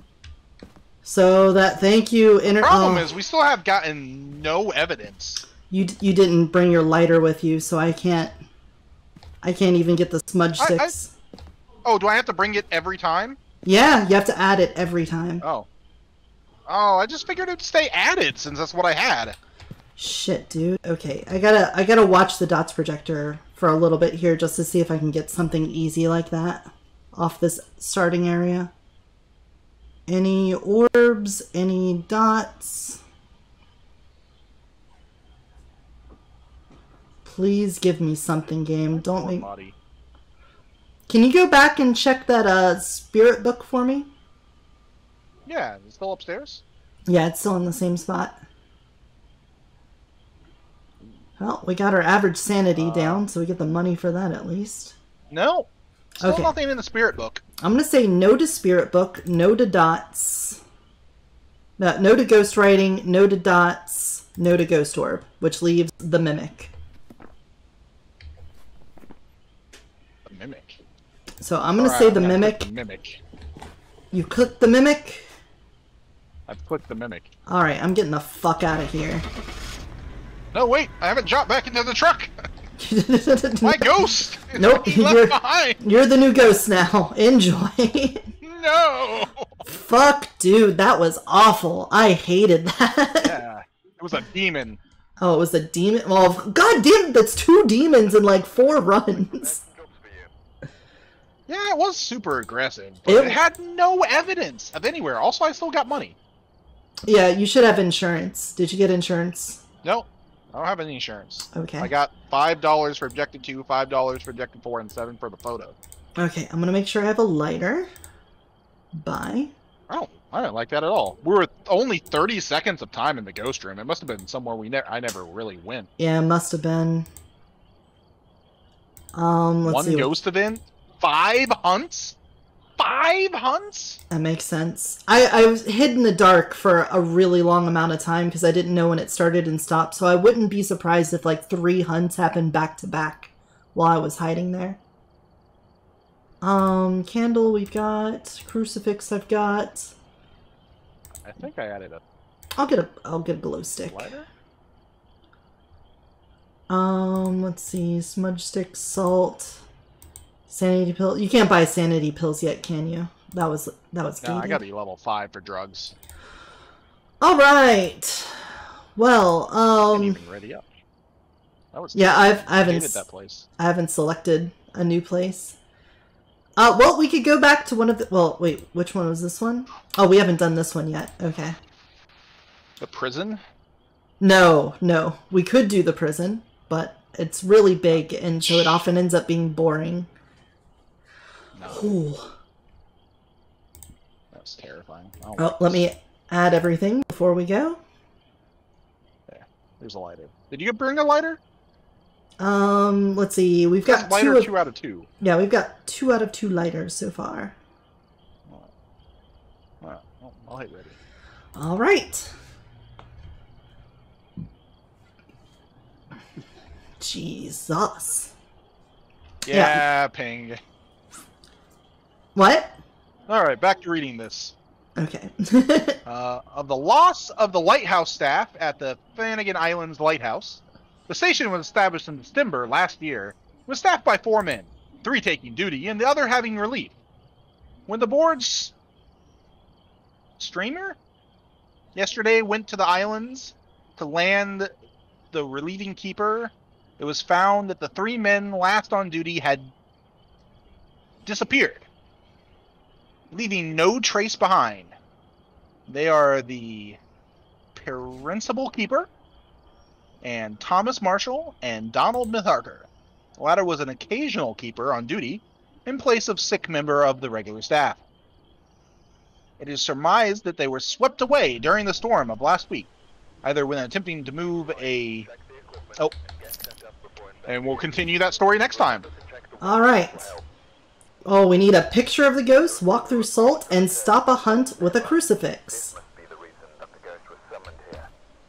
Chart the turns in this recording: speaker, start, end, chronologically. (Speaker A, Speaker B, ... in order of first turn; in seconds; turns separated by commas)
Speaker A: 1.0-3.1, Speaker B: 2.6-5.4, Speaker A: 5.7-8.3, Speaker A: 9.4-11.1, Speaker B: 10.6-10.9, Speaker B: 11.8-13.4, Speaker A: 13.6-15.4, Speaker B: 15.4-15.7, Speaker B: 16.6-19.4, Speaker A: 20.0-28.7, Speaker A: 30.1-33.0, Speaker A: 37.2-39.5, Speaker B: 38.9-39.8, Speaker A: 41.1-44.1, Speaker B: 45.5-46.6, Speaker A: 47.1-48.4, Speaker A: 51.4-54.9, Speaker B: 52.8-53.2, Speaker B: 55.3-55.7, Speaker A: 56.2-56.5, Speaker B: 56.2-57.4, Speaker A: 57.6-60.6, Speaker A: 61.8-66.7, Speaker B: 70.2-70.8, Speaker A: 71.4-72.6, Speaker B: 71.8-73.2, Speaker A: 74.1-75.3, Speaker B: 76.5-77.3, Speaker A: 77.5-79.2, Speaker B: 80.5-82.5, Speaker A: 82.8-88.3, Speaker B: 83.6-85.8, Speaker B: 88.4-89.6, Speaker A: 89.7-93.3, Speaker B: 93.2-94.8, Speaker A: 95.2-99.6, Speaker C: 98.8-100.3, Speaker B: 101.5-106.2, Speaker A: 103.0-103.4, Speaker A: 107.0-109.6, Speaker B: 109.8-115.8, Speaker A: 111.5-111.9, Speaker A: 116.2-117.9, Speaker A: 118.9-119.5, Speaker B: 119.9-125.9, Speaker A: 126.0-127.1, Speaker A: 129.1-130.1, Speaker B: 129.6-132.2, Speaker B: 132.8-134.0, Speaker A: 134.1-144.8, Speaker A: 146.4-149.9, Speaker B: 151.2-152.0, Speaker A: 152.6-154.1, Speaker B: 153.9-154.3, Speaker A: 156.7-159.6, Speaker A: 160.5-164.6, Speaker B: 164.2-165.9, Speaker A: 167.2-170.2, Speaker B: 169.9-170.6, Speaker B: 171.7-173.5, Speaker A: 171.9-173.0, Speaker A: 173.6-175.6, Speaker A: 176.6-181.6, Speaker B: 182.8-183.4, Speaker A: 184.2-190.1, Speaker B: 187.9-188.9, Speaker B: 191.5-192.0, Speaker A: 191.7-192.3, Speaker B: 194.3-195.8, Speaker A: 195.4-197.8, Speaker B: 199.3-201.4, Speaker A: 202.4-204.5, Speaker B: 203.8-205.1, Speaker A: 205.2-207.5, Speaker B: 209.8-210.9, Speaker A: 211.5-212.3, Speaker A: 217.0-218.3, Speaker B: 219.4-220.6, Speaker A: 219.5-219.8, Speaker A: 222.3-222.7, Speaker B: 223.3-224.5, Speaker A: 225.0-226.0, Speaker B: 226.1-236.9, Speaker B: 237.9-238.7, Speaker B: 240.4-241.0, Speaker B: 241.9-244.7, Speaker B: 245.3-249.7, Speaker B: 251.2-251.8, Speaker B: 253.3-254.9, Speaker B: 255.9-257.0, Speaker B: 257.7-259.1, Speaker B: 260.2-268.0, Speaker B: 269.6-272.9, Speaker B: 273.4-275.3, Speaker C: 274.5-280.4, Speaker B: 277.4-279.1, Speaker A: 279.6-280.3, Speaker A: 281.2-285.9, Speaker C: 282.6-288.1